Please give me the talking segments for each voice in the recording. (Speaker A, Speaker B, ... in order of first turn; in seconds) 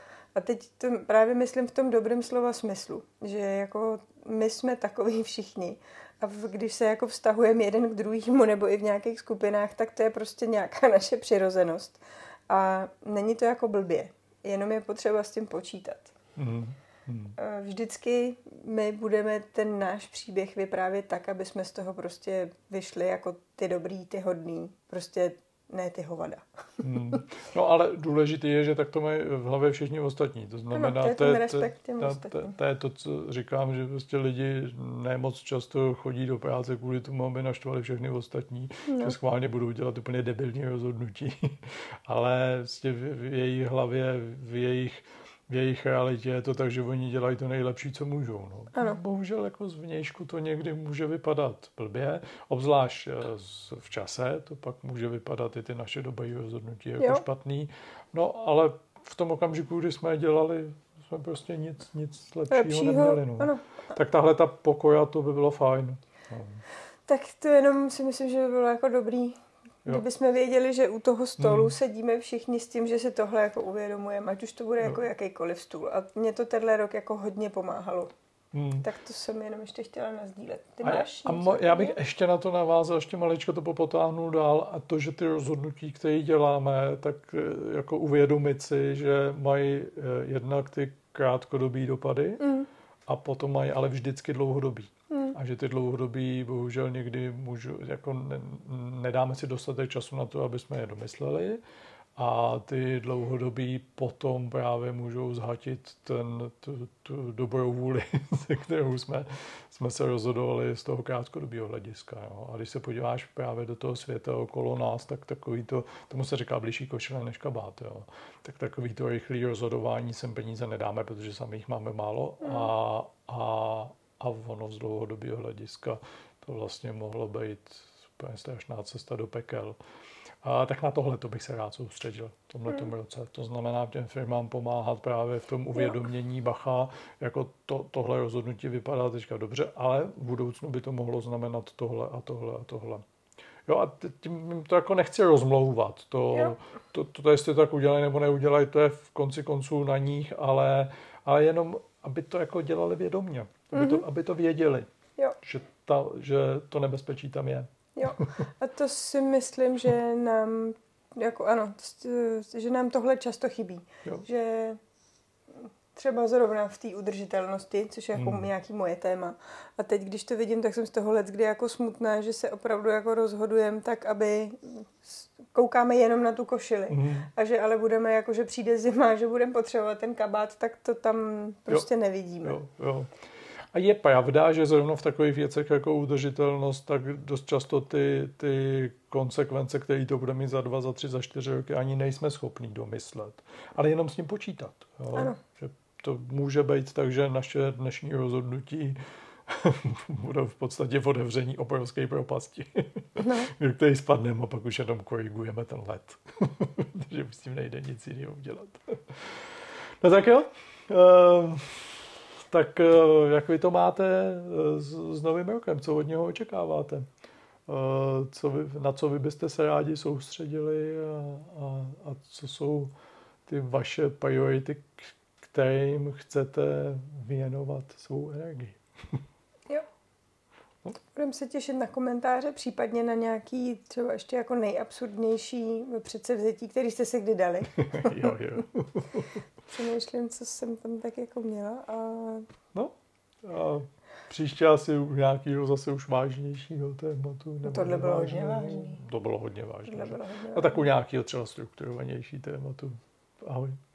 Speaker A: 0.3-16.1, 17.4-26.9, 30.7-32.5, 38.9-39.1, 48.7-49.0, 57.0-57.2, 62.5-63.6, 67.1-78.1, 78.8-82.0, 92.4-92.7, 95.1-95.3, 122.4-122.7, 153.7-154.0, 157.9-164.8, 165.6-182.6, 195.1-195.4, 203.2-203.5, 231.1-238.4, 239.7-242.5, 247.6-249.0, 249.8-250.9
Speaker B: 16.4-17.4, 26.8-66.6, 71.4-71.7, 78.5-78.8, 80.8-92.5, 93.1-101.6, 102.2-129.8, 130.4-143.0, 143.7-154.9, 155.4-158.3, 168.2-168.5, 176.9-177.3, 182.4-183.1, 183.7-211.9, 212.5-217.0, 217.7-222.9, 223.5-229.2, 237.8-239.3, 242.7-253.8